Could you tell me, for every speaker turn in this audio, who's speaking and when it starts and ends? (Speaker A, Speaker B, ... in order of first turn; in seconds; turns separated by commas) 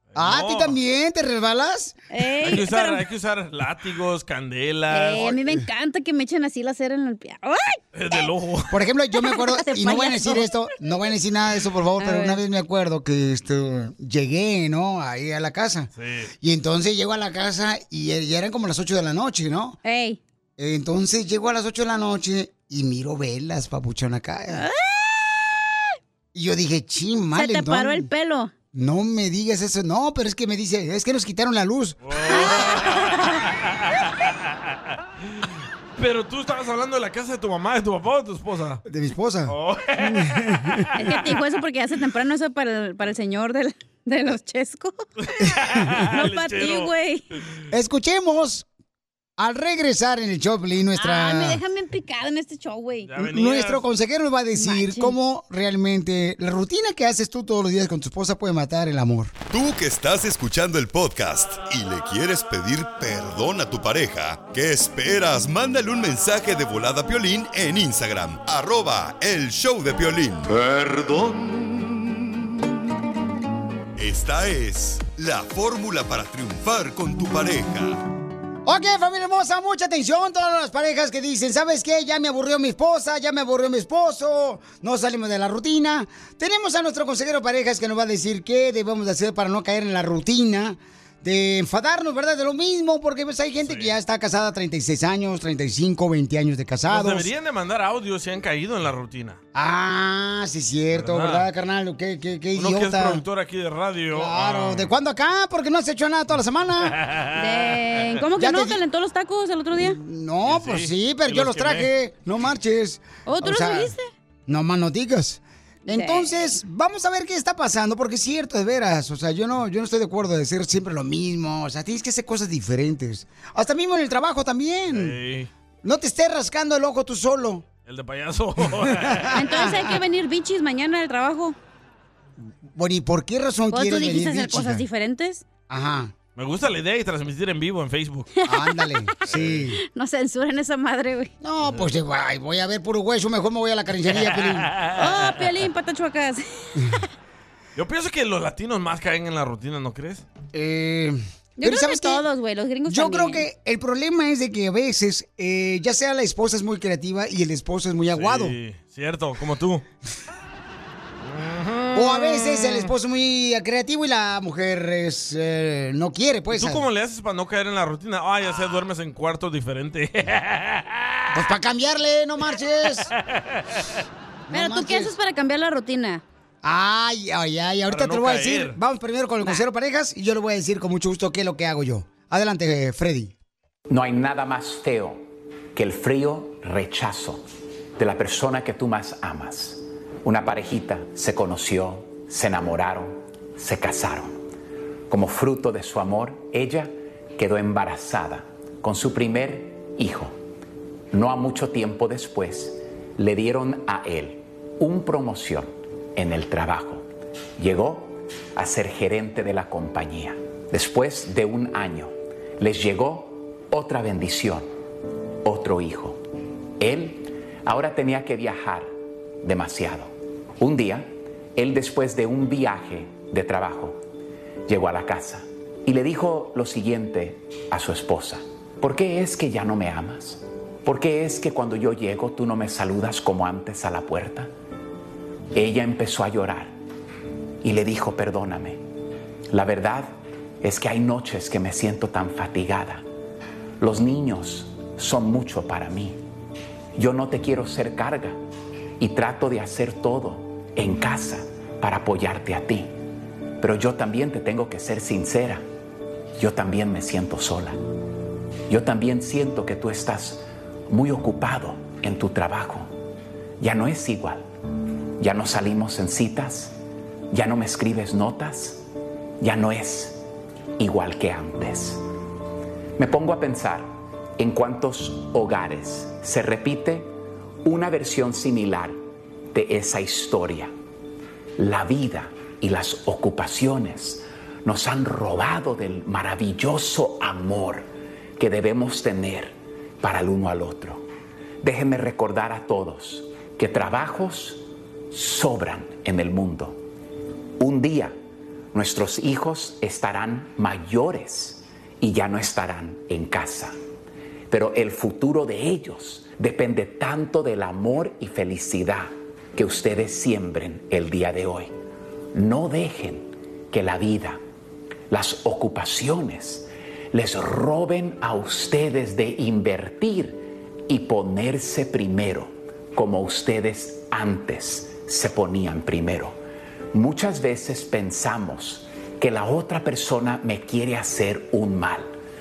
Speaker A: 0.1-0.8, Speaker B: 0.1-2.0, Speaker C: 2.1-3.0, Speaker A: 2.4-5.4, Speaker C: 4.9-7.8, Speaker A: 7.9-8.8, Speaker B: 8.7-19.8, Speaker C: 9.2-10.5, Speaker C: 12.0-12.4, Speaker A: 16.0-16.3, Speaker C: 19.8-20.2, Speaker B: 20.6-24.7, Speaker C: 24.5-25.5, Speaker B: 26.3-28.1, Speaker C: 27.3-28.5, Speaker B: 28.7-32.0, Speaker A: 32.0-34.5, Speaker C: 32.3-33.3, Speaker A: 35.3-38.8, Speaker B: 38.8-40.9, Speaker A: 39.5-41.1, Speaker C: 41.0-45.0, Speaker A: 45.2-46.9, Speaker C: 46.1-47.2, Speaker B: 47.7-48.6, Speaker B: 49.4-51.6, Speaker C: 51.0-53.1, Speaker A: 53.1-53.8, Speaker B: 53.2-59.3, Speaker C: 54.5-55.1, Speaker D: 59.5-71.9, Speaker D: 74.0-78.0, Speaker B: 78.7-97.3, Speaker A: 93.6-93.9, Speaker A: 96.9-99.4, Speaker B: 99.5-103.2, Speaker A: 100.9-101.5, Speaker A: 102.5-104.9, Speaker B: 104.1-106.9, Speaker A: 106.8-107.7, Speaker C: 107.3-110.0, Speaker B: 108.4-108.8, Speaker B: 109.8-113.9, Speaker A: 110.4-111.9, Speaker C: 113.2-114.1, Speaker B: 114.5-125.2, Speaker C: 115.9-116.3, Speaker A: 124.9-125.5, Speaker B: 125.8-127.7, Speaker A: 127.9-129.4, Speaker B: 128.8-130.0, Speaker C: 129.3-131.6, Speaker B: 132.7-134.8, Speaker C: 133.7-135.4, Speaker B: 135.7-136.1, Speaker A: 136.3-138.3, Speaker B: 138.4-139.8, Speaker A: 139.2-139.7, Speaker C: 139.8-141.3, Speaker B: 141.4-144.7, Speaker A: 144.2-145.3, Speaker C: 144.9-147.0, Speaker A: 147.8-150.2, Speaker B: 150.5-152.2, Speaker C: 151.6-153.4, Speaker B: 152.8-158.6, Speaker A: 158.1-159.8, Speaker A: 161.2-162.9, Speaker B: 161.9-166.8, Speaker A: 166.5-171.3, Speaker B: 171.3-173.1, Speaker A: 173.3-174.0, Speaker B: 174.5-175.1, Speaker C: 174.5-176.2, Speaker B: 176.6-183.3, Speaker A: 177.9-178.8, Speaker E: 183.9-187.4, Speaker E: 188.0-194.4, Speaker E: 195.1-200.3, Speaker E: 201.1-207.1, Speaker E: 207.6-214.7, Speaker E: 215.4-216.2, Speaker E: 216.8-218.9, Speaker E: 219.4-224.0, Speaker E: 224.7-234.5, Speaker E: 235.5-236.8, Speaker E: 237.6-238.8, Speaker E: 239.5-243.0, Speaker E: 243.8-246.2, Speaker E: 246.9-248.4, Speaker E: 249.0-252.9, Speaker E: 253.6-255.6, Speaker E: 256.4-257.8, Speaker E: 258.7-262.9, Speaker E: 263.6-264.5, Speaker E: 265.2-266.8, Speaker E: 267.3-268.9, Speaker E: 269.4-270.2, Speaker E: 270.8-272.0, Speaker E: 273.0-277.1, Speaker E: 277.6-279.0, Speaker E: 279.5-280.7, Speaker E: 281.6-291.1, Speaker E: 291.6-296.8, Speaker E: 297.6-298.1, Speaker E: 298.7-303.8, Speaker E: 304.5-311.7, Speaker E: 312.3-314.4, Speaker E: 315.1-326.4, Speaker E: 326.9-332.1